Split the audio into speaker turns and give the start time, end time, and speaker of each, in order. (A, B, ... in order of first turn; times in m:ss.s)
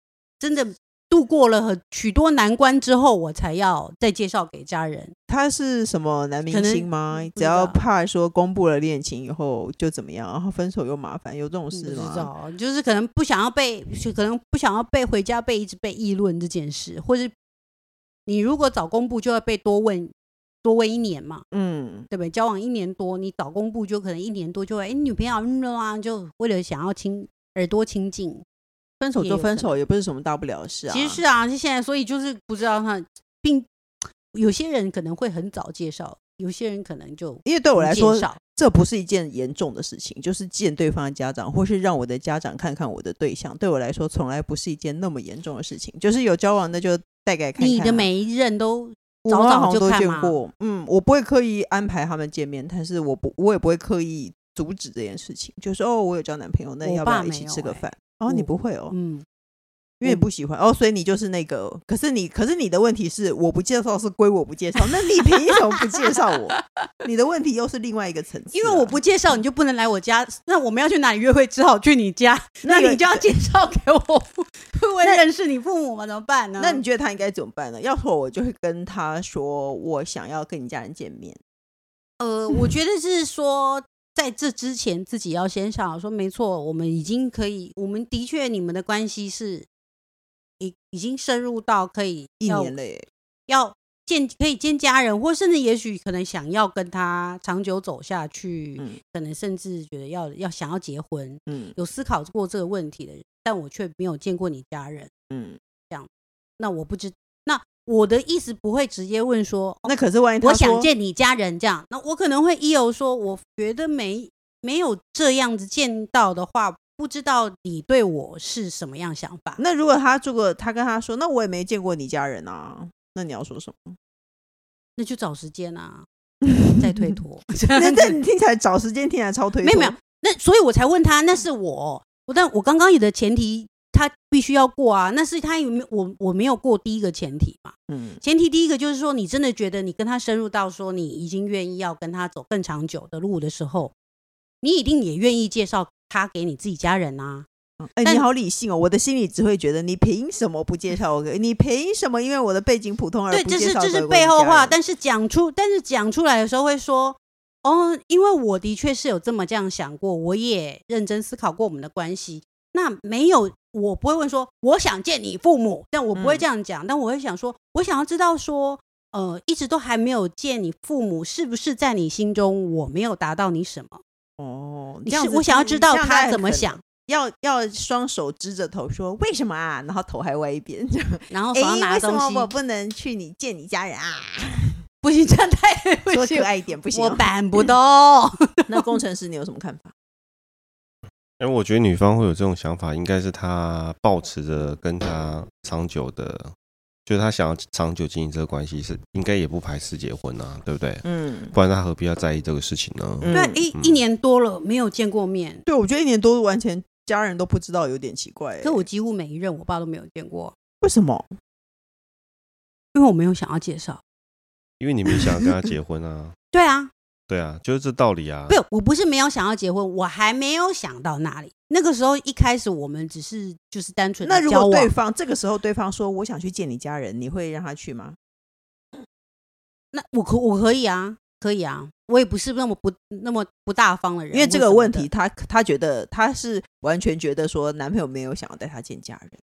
0:00.4-0:05.2 A
0:05.3-0:12.3 B
0:06.5-0:07.8 A
0:11.7-0:17.3 A
0:18.3-0:21.4 A
0:21.5-0:22.1 B
0:22.1-0:28.4 A
0:29.0-0:31.2 B
0:29.2-0:29.8 A
0:30.9-0:33.7 A
0:34.3-0:38.4 A
0:37.4-0:48.1 B
0:47.6-0:50.4 A
0:49.2-0:58.9 B
0:56.8-0:59.2 A
1:00.0-1:09.0 B
1:06.6-1:06.9 A
1:08.5-1:16.8 A
1:12.6-1:13.4 B
1:16.6-1:21.4 B
1:22.2-1:29.7 A
1:30.6-1:32.8 A
1:32.4-1:33.1 B
1:33.5-1:45.1 A
1:41.5-1:41.8 B
1:45.3-1:45.6 B
1:45.9-1:59.6 A
1:49.8-1:50.9 B
1:59.6-2:04.0 B
2:05.0-2:08.2 A
2:06.4-2:07.1 B
2:07.7-2:10.0 B
2:09.6-2:23.9 A
2:17.9-2:18.2 B
2:24.6-2:27.5 A
2:27.8-2:34.8 B
2:33.3-2:54.0 A
2:46.1-2:46.4 B
2:54.4-3:04.8 B
2:55.1-2:56.8 A
3:01.3-3:02.5 A
3:05.0-3:08.9 A
3:06.1-3:07.3 B
3:08.7-3:09.9 B
3:11.4-3:16.5 C
3:17.1-3:24.0 C
3:21.0-3:21.5 B
3:23.2-3:23.6 B
3:23.3-3:25.6 A
3:25.7-3:28.9 B
3:28.6-3:30.6 A
3:30.8-3:31.3 B
3:32.9-3:34.0 A
3:34.8-3:36.4 C
3:36.5-3:36.9 A
3:37.3-3:38.6 C
3:38.5-3:44.9 A
3:44.2-3:48.2 B
3:49.9-3:55.1 A
3:54.3-3:59.4 B